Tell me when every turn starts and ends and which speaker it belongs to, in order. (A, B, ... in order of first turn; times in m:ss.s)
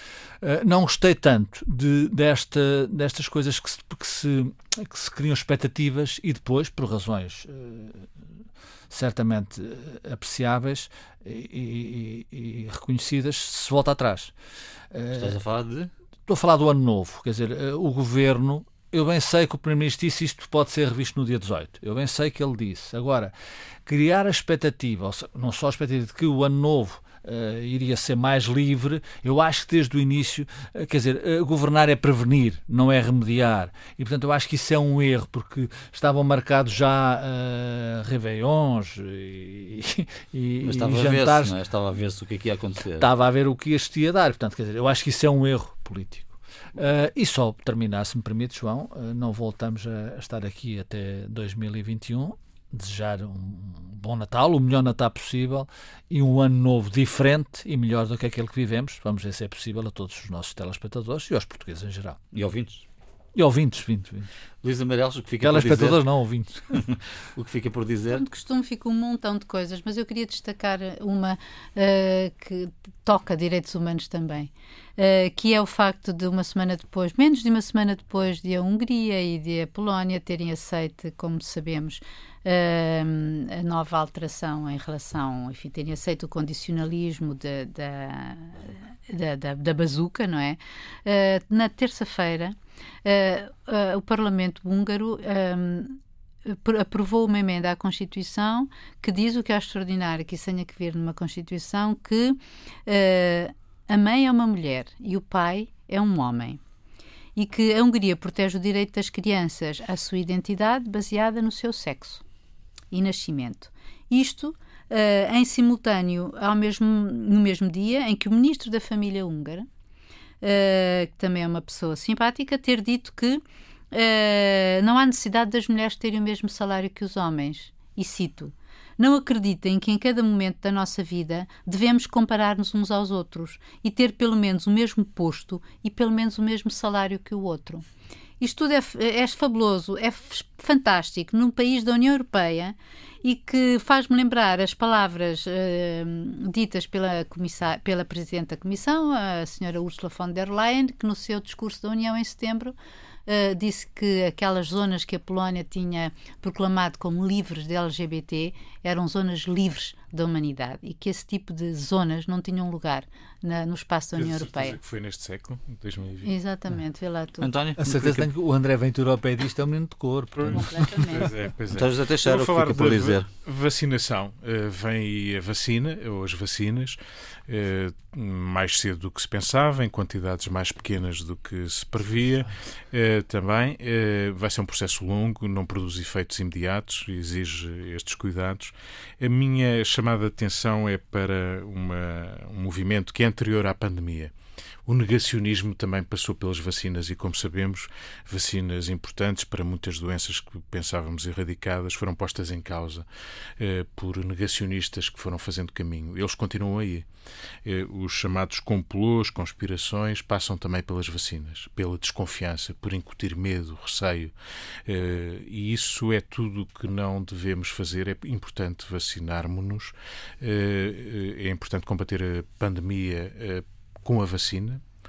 0:00.4-0:08.1 A
0:08.9-0:14.3 A
0:14.9-0:15.4 A
0:15.1-0:15.9 B
0:16.3-0:23.3 A
0:23.8-0:41.5 A
0:40.6-0:43.0 B
0:43.0-1:02.2 A
1:02.3-1:02.8 B
1:03.3-1:04.3 A
1:04.6-1:06.0 B
1:05.4-1:06.8 A
1:06.7-1:08.2 B
1:08.1-1:46.6 C
1:47.4-1:52.2 C
1:52.9-1:59.7 C
2:00.4-2:17.8 C
2:18.4-2:32.7 C
2:33.2-2:44.8 C
2:44.2-2:46.3 D
2:46.2-2:47.5 C
2:47.4-2:48.3 B
2:47.8-2:51.0 A
2:50.4-3:14.3 D
2:50.5-2:51.3 C
2:51.7-2:53.3 B
3:14.8-3:23.0 D
3:23.6-3:27.0 D
3:27.6-3:34.3 D
3:34.8-3:44.8 D